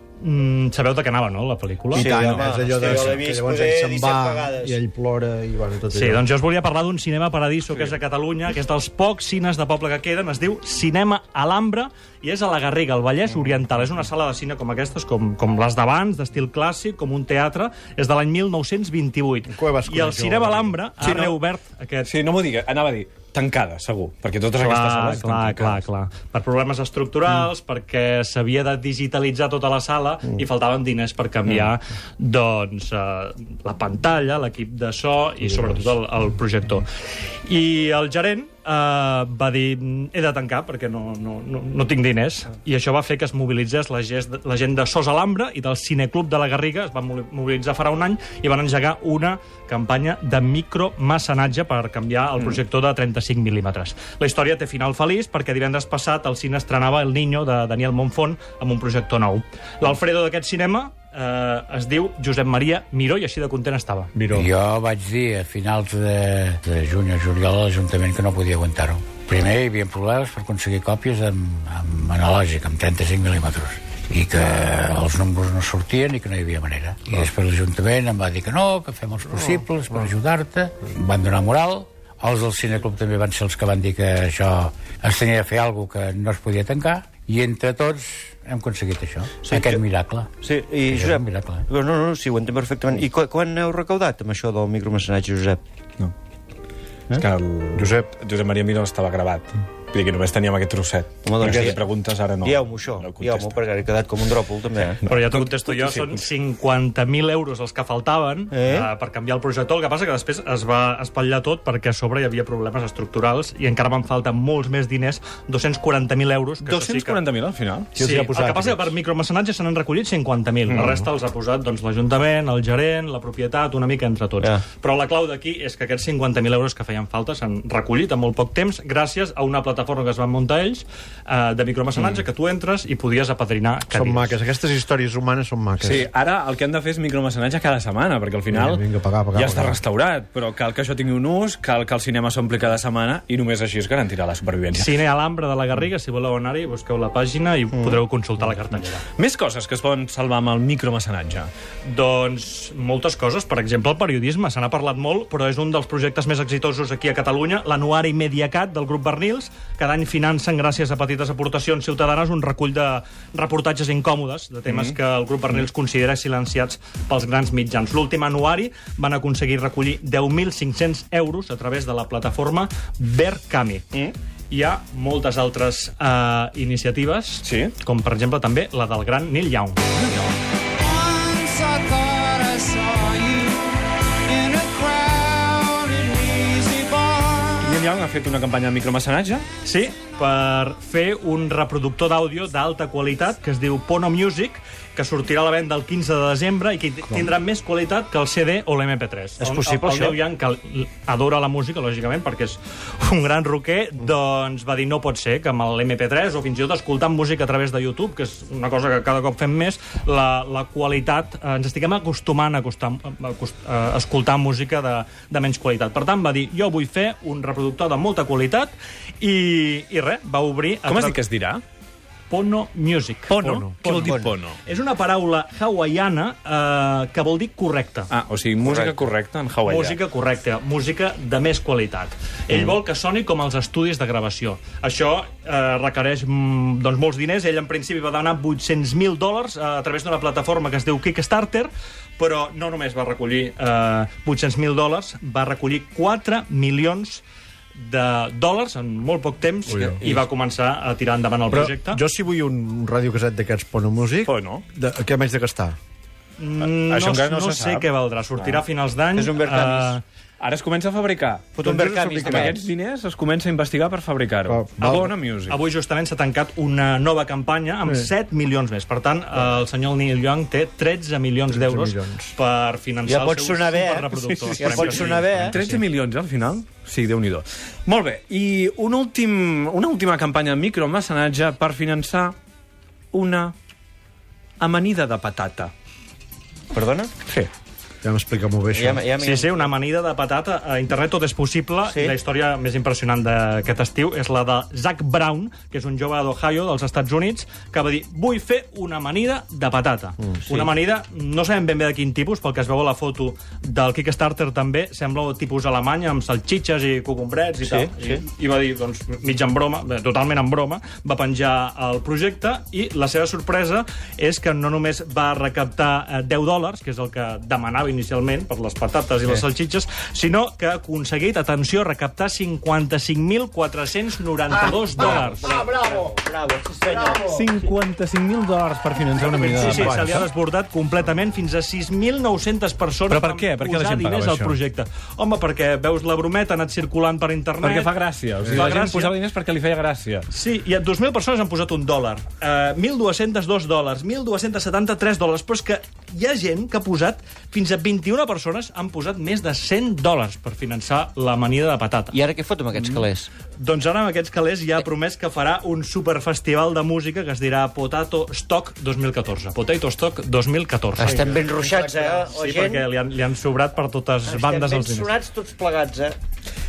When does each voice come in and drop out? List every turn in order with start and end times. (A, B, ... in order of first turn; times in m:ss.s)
0:00.2-0:02.1 A
0:01.9-0:04.8 B
0:01.9-0:06.2 C
0:02.1-0:03.2 D
0:05.9-0:22.1 A
0:19.5-0:21.3 C
0:22.0-0:25.8 D
0:24.6-0:36.8 A
0:37.4-1:04.1 A
1:04.1-1:04.5 C
1:04.3-1:30.3 E
1:29.4-1:29.8 B
1:30.4-1:35.6 B
1:30.8-1:31.6 E
1:37.2-1:43.6 D
1:41.2-1:41.8 B
1:42.4-1:45.0 B
1:44.9-1:46.2 D
1:45.0-1:57.2 A
1:48.5-1:48.9 B
1:56.6-1:58.2 D
1:58.0-2:14.4 A
1:58.0-1:58.9 C
2:00.7-2:01.0 D
2:13.9-2:16.1 C
2:15.8-2:24.9 D
2:18.5-2:19.8 C
2:24.7-2:29.0 A
2:29.2-2:31.5 D
2:31.8-2:53.8 A
2:44.7-2:45.0 D
2:54.5-2:59.8 A
2:57.4-2:57.7 D
2:59.9-3:00.3 D
3:00.9-3:03.7 F
3:04.3-3:07.5 F
3:07.5-3:09.4 D
3:09.6-3:41.2 A
3:19.4-3:20.2 B
3:40.9-3:41.6 D
3:42.3-3:48.1 A
3:43.3-3:44.6 D
3:43.4-3:44.2 C
3:48.1-3:50.0 D
3:49.6-4:07.2 A
4:07.7-4:12.0 A
4:09.7-4:10.0 C
4:09.8-4:10.2 D
4:11.5-4:15.8 C
4:14.2-4:14.6 D
4:16.4-4:20.0 A
4:16.6-4:17.9 D
4:18.4-4:20.0 B
4:20.4-4:25.6 D
4:21.6-4:22.6 B
4:21.6-4:22.6 C
4:24.4-4:25.1 C
4:25.5-4:35.7 A
4:31.5-4:32.3 C
4:33.0-4:34.0 B
4:34.1-4:42.4 D
4:34.5-4:35.6 B
4:35.3-4:35.8 C
4:43.1-4:43.5 D
4:44.6-4:45.7 D
4:46.7-4:47.1 B
4:48.0-4:49.1 C
4:48.7-4:49.6 B
4:49.2-5:25.6 A
4:51.9-4:52.2 B
5:07.6-5:08.2 B
5:25.0-5:25.6 C
5:25.0-5:27.3 B
5:27.0-5:30.3 D
5:29.2-5:37.9 A
5:29.5-5:30.2 C
5:33.1-5:34.6 D
5:37.6-5:40.3 D
5:38.4-5:39.1 A
5:40.3-5:52.2 A
5:52.1-5:53.3 B
5:52.8-5:53.0 A
5:53.6-6:01.4 A
6:01.0-6:02.9 B
6:01.0-6:02.3 C
6:02.3-6:05.1 A
6:04.3-6:06.2 B